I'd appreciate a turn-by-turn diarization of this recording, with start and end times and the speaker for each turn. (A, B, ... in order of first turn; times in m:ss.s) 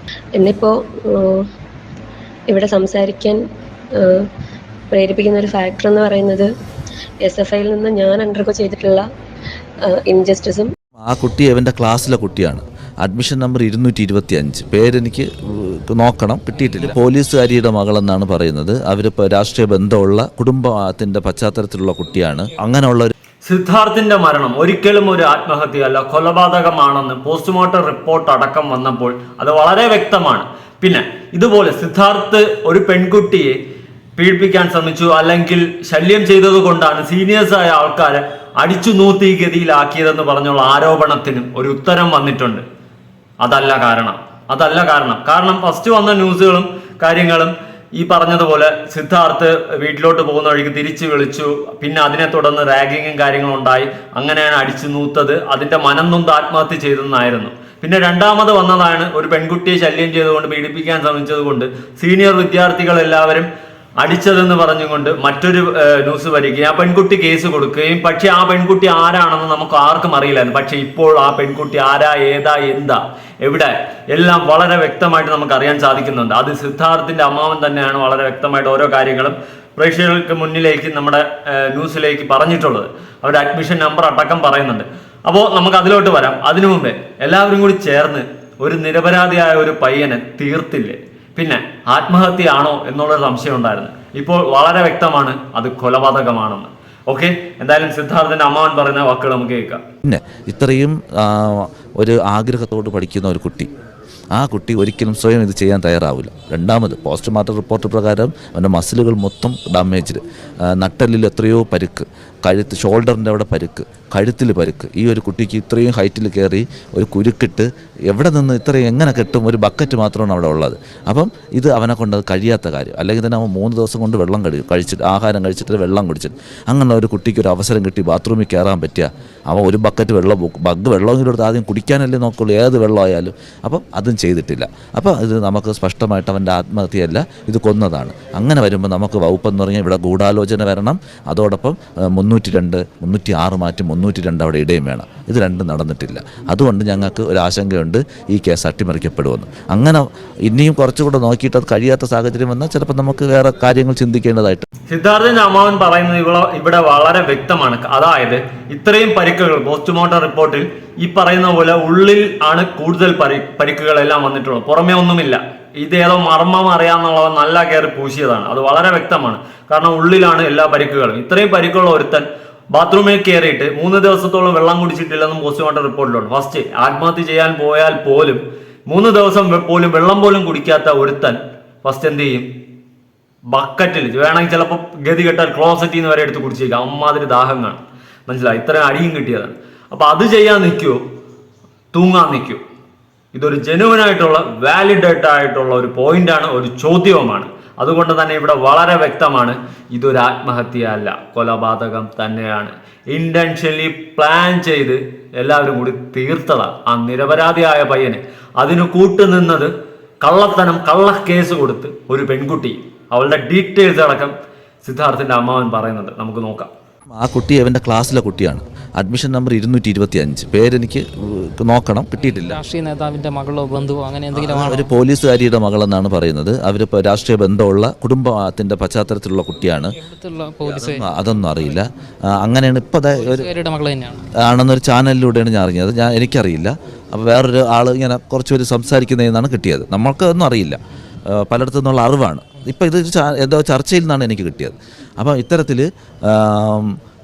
0:00.4-0:01.5 A
0:02.5-0:03.4 A
0:04.0-0:04.3 A
0:04.9-0:06.5 A
0:07.2-0:09.0 A
0:09.8-0:10.7 A
0:11.1-0:23.1 B
0:23.4-0:33.6 C
0:34.2-0:42.6 C
0:43.4-1:03.5 C
1:04.0-1:39.8 C
1:40.0-1:43.7 B
1:44.4-1:50.2 B
1:50.7-2:34.7 B
2:34.9-3:02.5 C
3:03.5-3:11.0 C
3:11.9-3:12.6 C
3:13.3-3:29.7 C
3:30.2-3:34.3 C
3:34.8-3:36.7 C
3:37.2-3:42.6 B
3:42.2-3:44.9 D
3:44.4-3:50.0 B
3:50.0-3:51.1 D
3:50.7-3:51.9 B
3:52.4-3:53.5 B
3:53.2-3:54.2 D
3:54.4-4:00.8 B
4:01.3-4:06.9 B